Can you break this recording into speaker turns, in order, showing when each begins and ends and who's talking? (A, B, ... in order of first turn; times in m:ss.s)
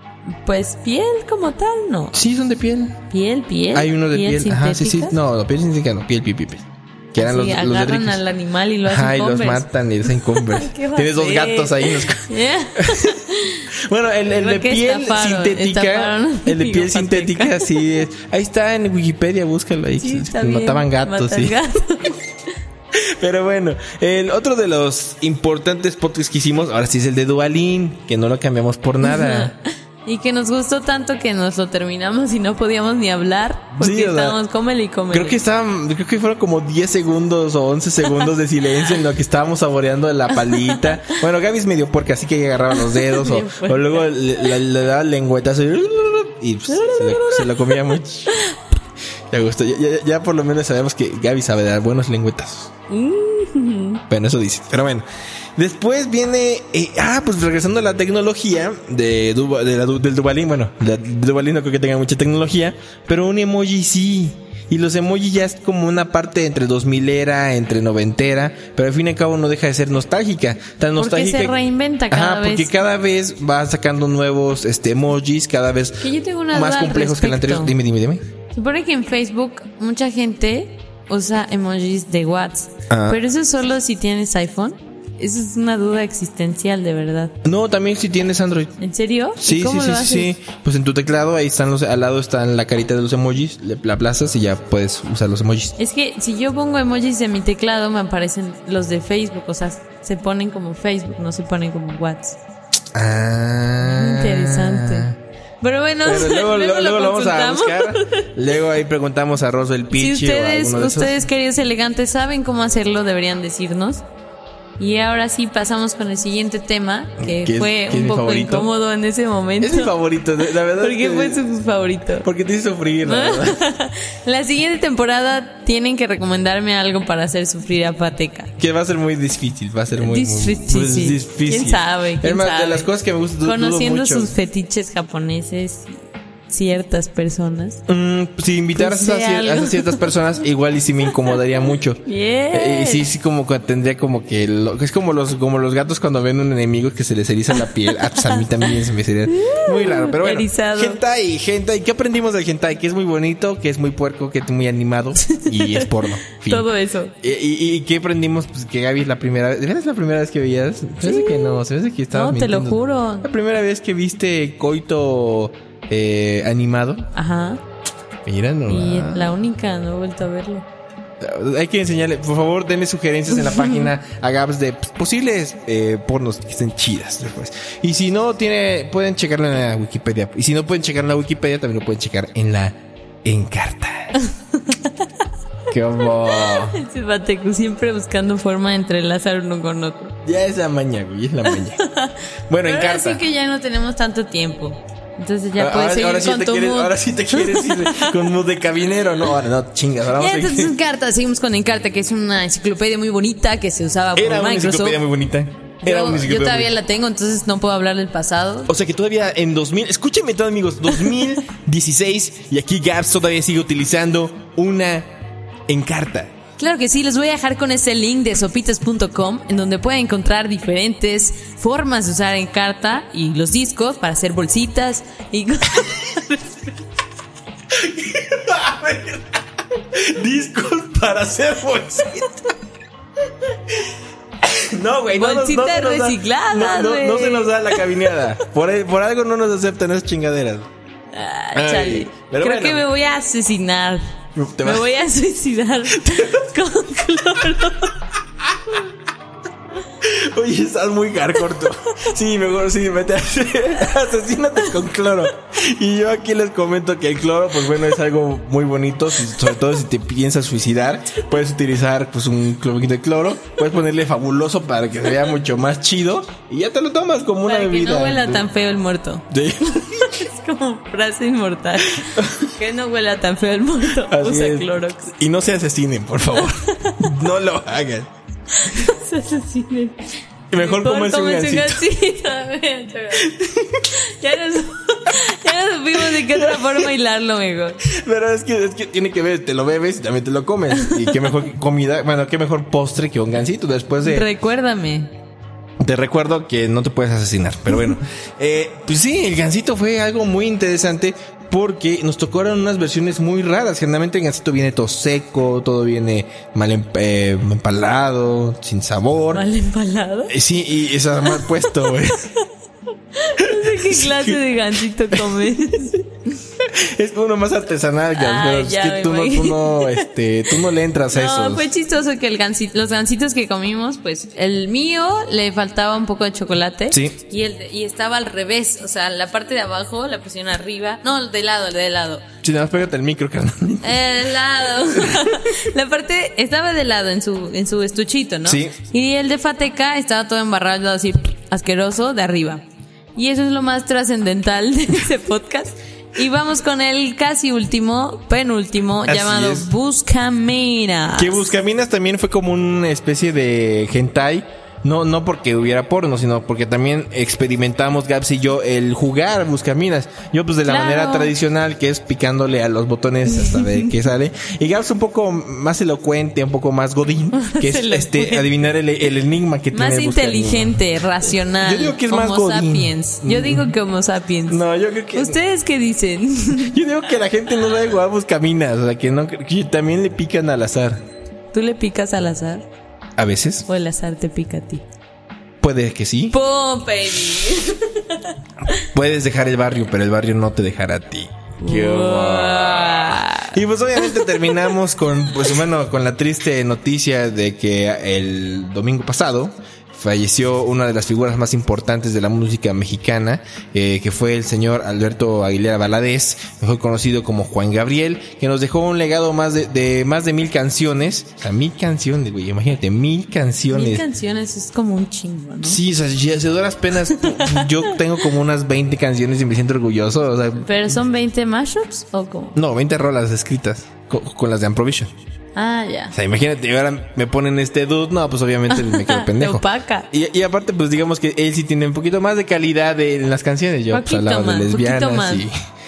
0:00.4-0:02.2 A
0:02.1-0:03.0 B
0:03.1-0:05.2 A
0:03.7-0:08.2 B
0:07.2-0:09.7 A
0:08.9-0:13.2 B
0:10.2-0:13.7 A
0:13.8-0:21.6 B
0:14.4-0:17.7 A
0:20.0-0:22.2 A
0:22.9-0:29.6 B
0:29.0-0:35.4 A
0:33.7-0:34.4 B
0:35.1-0:48.4 B
0:40.5-0:40.8 A
0:42.7-0:44.5 A
0:46.7-0:47.8 A
0:48.3-0:48.6 A
0:49.3-0:52.7 B
0:52.9-0:54.0 A
0:54.1-1:11.6 B
1:11.0-1:12.7 A
1:12.1-1:18.2 B
1:16.0-1:17.7 A
1:18.5-1:27.4 A
1:22.9-1:23.2 B
1:27.4-1:28.8 B
1:28.8-1:30.4 A
1:29.4-1:35.8 B
1:35.8-1:42.4 A
1:42.9-1:45.2 B
1:43.8-1:45.1 A
1:45.6-1:48.3 A
1:46.0-1:51.2 B
1:49.9-1:54.0 A
1:54.8-1:59.9 A
1:57.2-1:58.7 B
1:59.6-2:01.5 B
2:00.8-2:02.3 A
2:02.2-2:03.6 B
2:03.0-2:08.5 A
2:08.6-2:14.3 B
2:10.0-2:12.9 A
2:13.4-2:17.8 A
2:17.9-2:36.7 B
2:18.7-2:20.1 A
2:22.0-2:23.1 A
2:29.3-2:31.0 A
2:35.2-2:37.1 A
2:37.2-2:47.1 B
2:41.0-2:43.3 A
2:47.1-2:47.6 A
2:48.2-2:49.4 B
2:48.7-2:50.7 A
2:51.2-3:04.2 B
2:53.5-2:53.9 A
3:04.2-3:04.9 A
3:05.7-3:06.8 B
3:06.3-3:10.2 A
3:10.2-3:11.8 B
3:11.8-3:18.2 A
3:12.5-3:13.2 B
3:15.6-3:20.7 B
3:20.1-3:25.0 A
3:24.2-3:26.7 B
3:25.8-3:28.7 A
3:28.7-3:35.1 B
3:35.7-3:36.3 B
3:36.6-3:46.7 A
3:47.7-3:52.3 B
3:53.7-3:53.9 B
3:54.4-4:00.7 B
3:55.2-3:58.1 A
4:01.1-4:04.0 A
4:01.6-4:02.8 B
4:04.4-4:04.9 B
4:04.6-4:08.0 A
4:06.0-4:06.5 B
4:10.0-4:28.5 B
4:27.5-4:35.1 A
4:29.3-4:30.2 B
4:32.0-4:32.5 B
4:34.0-4:38.1 B
4:36.3-4:37.1 A
4:38.5-4:43.3 A
4:40.5-4:41.8 B
4:43.2-4:44.0 B
4:43.9-4:47.8 A
4:46.0-4:46.9 B
4:47.8-4:54.3 B
4:50.8-4:51.3 A
4:54.0-4:55.1 A
4:55.8-5:09.5 B
5:09.3-5:10.4 A
5:10.3-5:12.3 B
5:11.2-5:11.9 A
5:13.2-5:16.1 A
5:13.4-5:14.4 B
5:15.1-5:15.5 B
5:16.6-5:21.7 B
5:18.2-5:20.1 A
5:21.1-5:32.2 A
5:26.9-5:27.2 B
5:32.4-5:34.0 B
5:33.8-5:42.6 A
5:34.9-5:35.3 B
5:38.4-5:38.8 B
5:43.2-5:51.5 A
5:49.0-5:49.7 B
5:51.2-6:10.8 B
6:00.6-6:01.3 A
6:03.3-6:03.9 A
6:07.4-6:08.5 A
6:09.7-6:16.8 A
6:11.4-6:13.7 B
6:14.5-6:15.4 B
6:16.5-6:21.0 B
6:21.5-6:22.7 A
6:23.2-6:23.7 B
6:23.7-6:24.8 A
6:25.6-6:26.4 B
6:26.3-6:28.8 A
6:28.8-6:54.1 B
6:31.6-6:34.8 A
6:53.7-6:55.8 A
6:55.6-7:01.0 B
6:57.1-6:57.9 A
7:00.6-7:02.6 A
7:02.6-7:05.1 B
7:05.6-7:06.2 A
7:06.1-7:15.5 B
7:08.7-7:10.1 A
7:13.9-7:15.5 A